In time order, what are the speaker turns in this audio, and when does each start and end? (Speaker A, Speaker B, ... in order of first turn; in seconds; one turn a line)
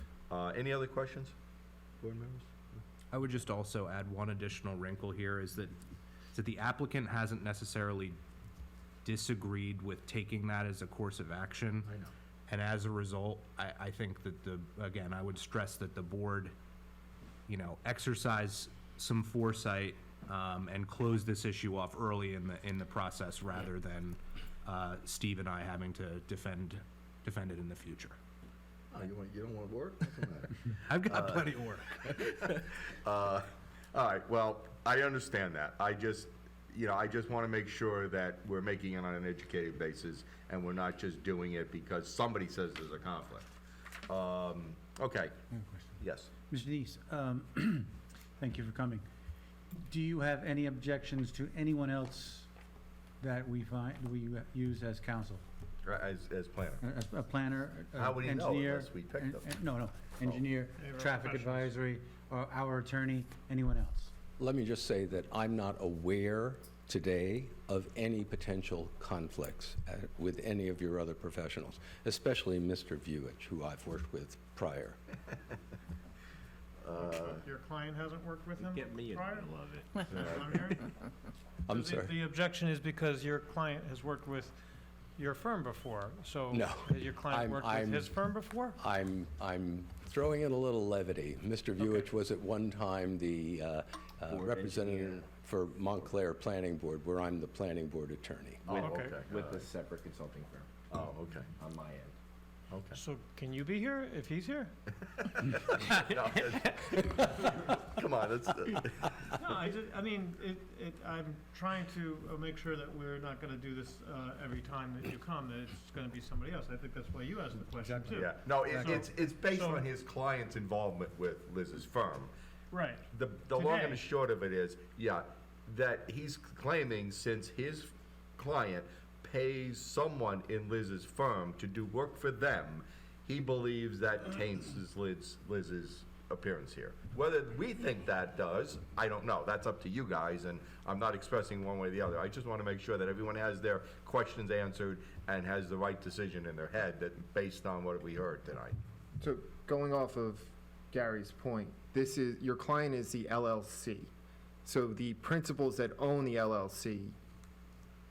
Speaker A: 0.3-1.4
Speaker A: 2.0-2.7
Speaker B: 3.1-5.8
Speaker B: 6.3-8.2
Speaker B: 9.0-11.9
Speaker B: 12.5-16.5
Speaker B: 17.5-28.2
Speaker A: 28.9-31.4
Speaker B: 30.9-32.2
Speaker A: 32.0-43.5
Speaker A: 44.1-45.4
Speaker C: 45.5-45.9
Speaker A: 46.0-46.3
Speaker C: 46.5-49.0
Speaker C: 49.9-52.5
Speaker C: 53.2-55.4
Speaker A: 55.8-56.8
Speaker C: 56.8-64.1
Speaker A: 58.0-59.5
Speaker D: 60.8-61.7
Speaker E: 64.4-75.0
Speaker A: 76.8-77.4
Speaker D: 76.9-81.0
Speaker F: 79.3-79.7
Speaker A: 80.1-80.4
Speaker E: 81.7-82.2
Speaker D: 81.7-84.6
Speaker D: 85.2-88.8
Speaker E: 86.5-88.2
Speaker E: 88.8-98.8
Speaker D: 91.8-92.1
Speaker F: 94.3-95.1
Speaker A: 98.7-99.7
Speaker D: 98.7-99.3
Speaker F: 99.3-100.8
Speaker A: 100.9-101.5
Speaker F: 101.6-102.1
Speaker A: 102.7-103.0
Speaker D: 102.9-104.7
Speaker A: 105.2-109.3
Speaker D: 109.4-119.9
Speaker A: 118.1-122.3
Speaker C: 118.7-119.0
Speaker D: 122.7-124.0
Speaker A: 123.1-148.8
Speaker G: 149.2-154.1
Speaker G: 154.7-157.2